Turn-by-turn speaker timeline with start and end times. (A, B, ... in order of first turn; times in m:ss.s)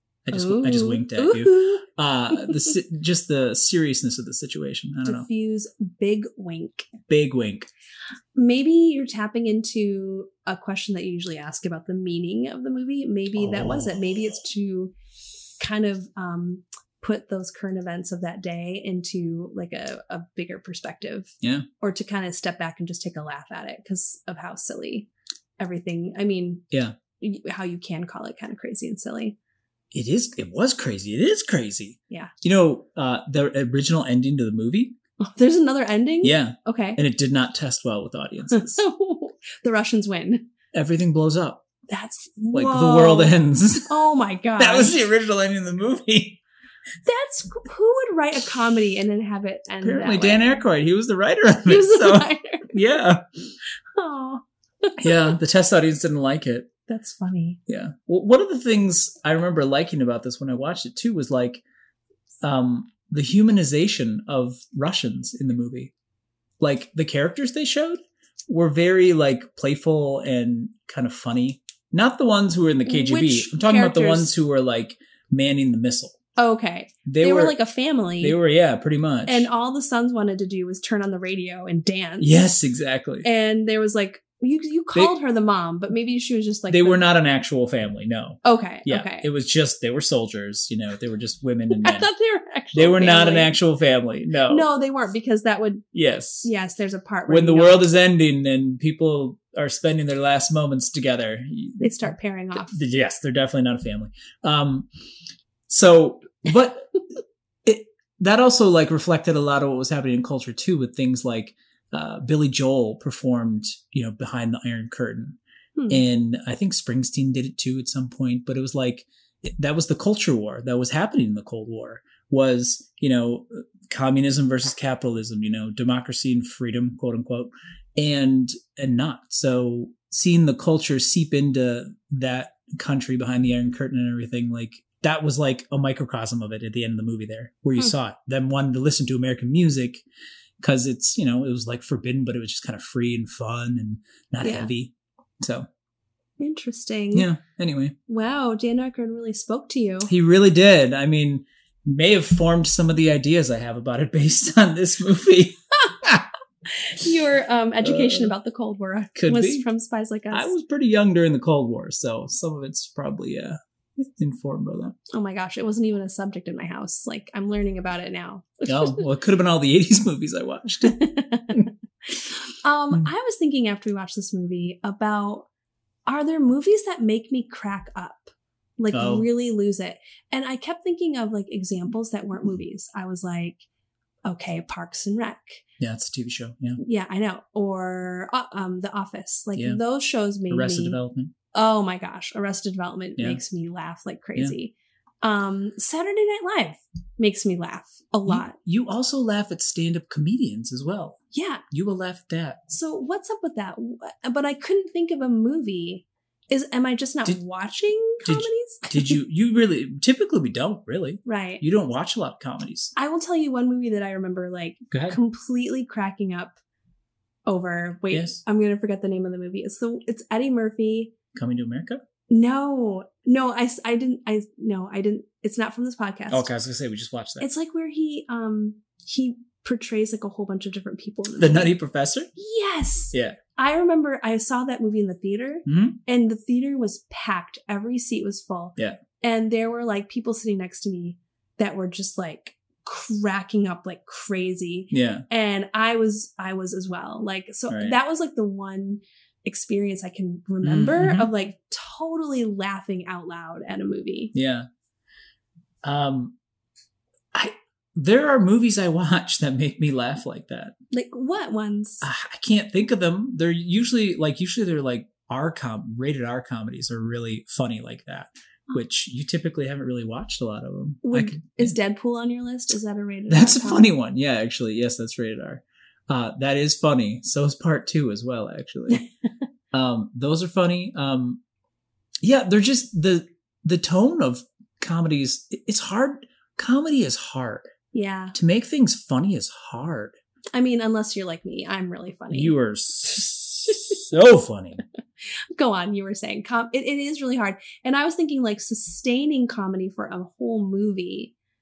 0:00.2-0:05.3 A
0:00.3-0:02.7 B
0:05.0-0:06.9 B
0:07.1-0:07.7 A
0:08.4-0:14.9 B
0:13.4-0:14.0 A
0:15.6-0:26.6 B
0:27.2-0:29.4 B
0:29.9-0:35.0 A
0:35.2-0:37.0 B
0:36.2-0:38.8 A
0:38.5-0:40.5 B
0:40.7-0:41.6 A
0:41.9-0:43.3 B
0:42.5-0:44.0 A
0:43.9-0:45.0 B
0:44.6-0:46.4 A
0:47.0-0:50.6 B
0:49.8-0:53.2 A
0:51.7-0:52.8 B
0:53.9-0:55.4 B
0:55.0-0:56.7 A
0:56.9-0:57.6 B
0:57.7-1:01.6 A
1:02.4-1:05.9 A
1:06.6-1:16.2 A
1:12.8-1:14.3 B
1:16.4-1:18.4 B
1:17.1-1:17.6 A
1:18.2-1:19.5 A
1:19.3-1:22.3 B
1:22.2-1:23.3 A
1:23.2-1:27.0 B
1:26.7-1:32.1 A
1:28.4-1:29.3 B
1:31.8-1:33.5 B
1:32.7-1:34.7 A
1:34.5-1:35.9 B
1:35.9-1:36.5 A
1:36.4-1:37.8 B
1:37.3-1:44.9 A
1:41.8-1:42.8 B
1:45.7-1:47.0 A
1:47.7-1:55.4 A
1:55.8-1:56.0 B
1:55.9-2:20.0 A
2:20.6-2:25.7 A
2:24.4-2:24.7 B
2:26.4-2:27.3 B
2:27.1-2:28.0 A
2:28.1-2:30.1 B
2:30.1-2:36.3 A
2:36.7-2:40.5 B
2:37.8-2:38.3 A
2:39.2-2:39.6 A
2:40.3-2:45.0 A
2:45.1-2:49.1 B
2:48.7-2:51.7 A
2:50.8-2:55.5 B
2:56.1-3:03.6 B
2:58.9-2:59.3 A
3:04.2-3:05.6 B
3:05.8-3:06.8 A
3:06.8-3:11.0 B
3:09.6-3:09.8 A
3:10.5-3:11.3 A
3:11.5-3:18.6 B
3:18.3-3:21.2 A
3:21.3-3:21.6 B
3:21.7-3:22.6 A
3:22.7-3:29.2 B
3:28.2-3:32.9 A
3:31.2-3:31.6 B
3:33.0-3:36.6 B
3:34.9-3:35.2 A
3:37.5-3:41.1 B
3:38.1-3:38.4 A
3:41.4-3:42.0 A
3:42.3-3:46.5 B
3:46.3-3:47.5 A
3:47.4-3:51.8 B
3:51.3-3:52.3 A
3:52.4-4:14.3 B
3:53.1-3:53.4 A
3:55.7-3:56.0 A
4:04.9-4:05.2 A
4:07.7-4:08.0 A
4:10.6-4:11.3 A
4:14.3-4:14.7 A
4:15.8-4:16.4 A
4:17.3-4:20.7 A
4:20.9-4:22.1 B
4:22.0-4:31.8 A
4:31.0-4:33.9 B
4:33.3-4:39.0 A
4:39.7-4:41.4 A
4:42.2-4:47.7 A
4:47.9-4:48.4 B
4:48.3-4:50.2 A
4:50.5-4:52.6 B
4:52.3-4:54.8 A
4:53.7-4:53.9 B
4:55.6-5:01.3 B